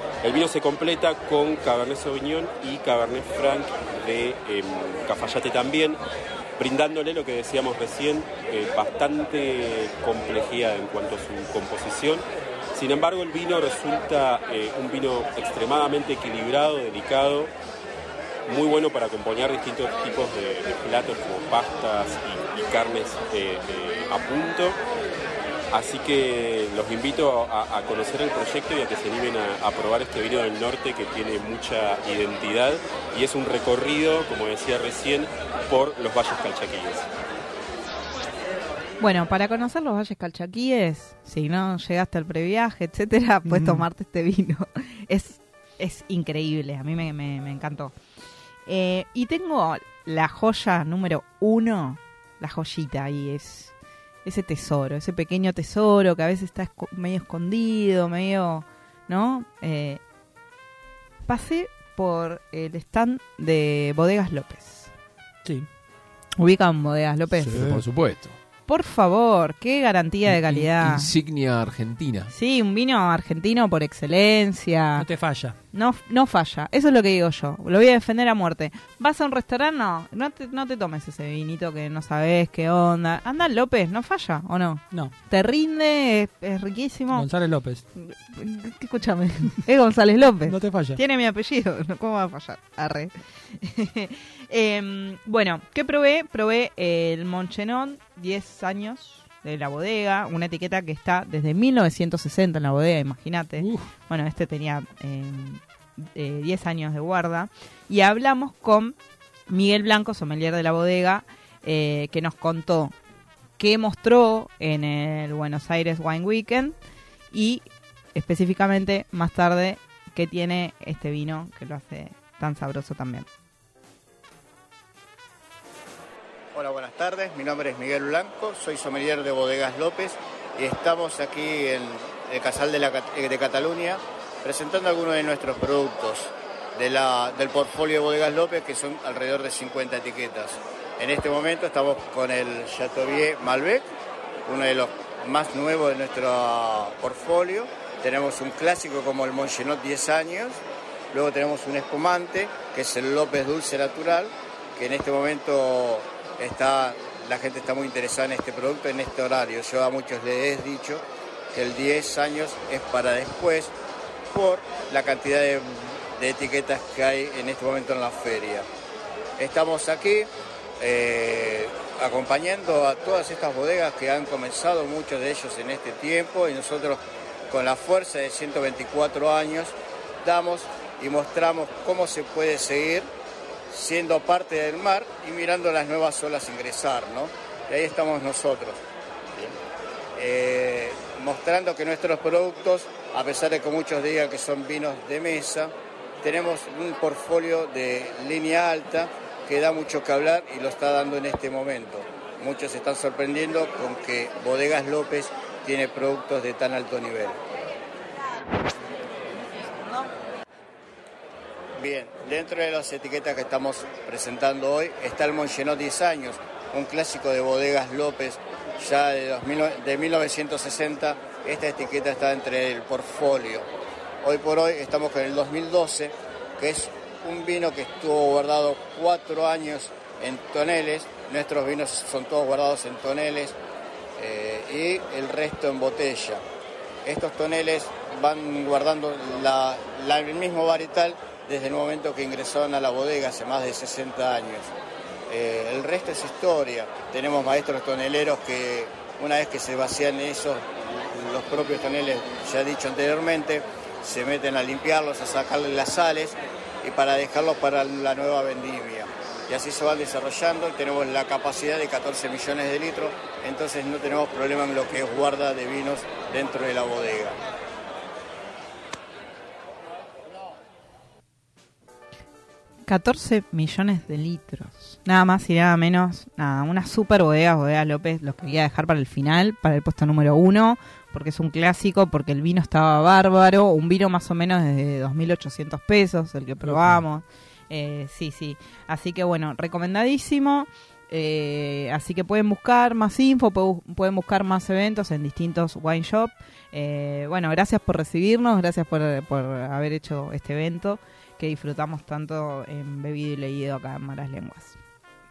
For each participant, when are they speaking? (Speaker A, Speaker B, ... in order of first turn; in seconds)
Speaker A: 0.2-6.0, 6.6-17.5, 18.5-24.8, 25.7-37.0
Speaker B: 39.0-47.9, 48.6-53.7, 54.2-60.0, 61.2-64.9, 66.4-67.7, 68.7-71.1, 72.3-75.0, 75.7-87.3, 87.9-105.6, 106.1-109.0, 109.5-112.9, 113.6-116.8, 117.3-123.3, 272.9-304.8
Speaker C: 43.5-43.8, 75.0-75.5, 87.1-87.8, 90.5-91.0, 103.6-103.9, 286.6-287.0
Speaker D: 67.3-68.3, 70.3-72.3
Speaker E: 126.5-143.8, 144.4-150.6, 151.1-163.7, 164.3-168.7, 169.4-170.3, 170.8-183.1, 183.7-188.8, 190.2-207.4, 211.8-223.7, 224.2-233.6, 234.2-236.4, 237.0-244.7, 245.3-267.4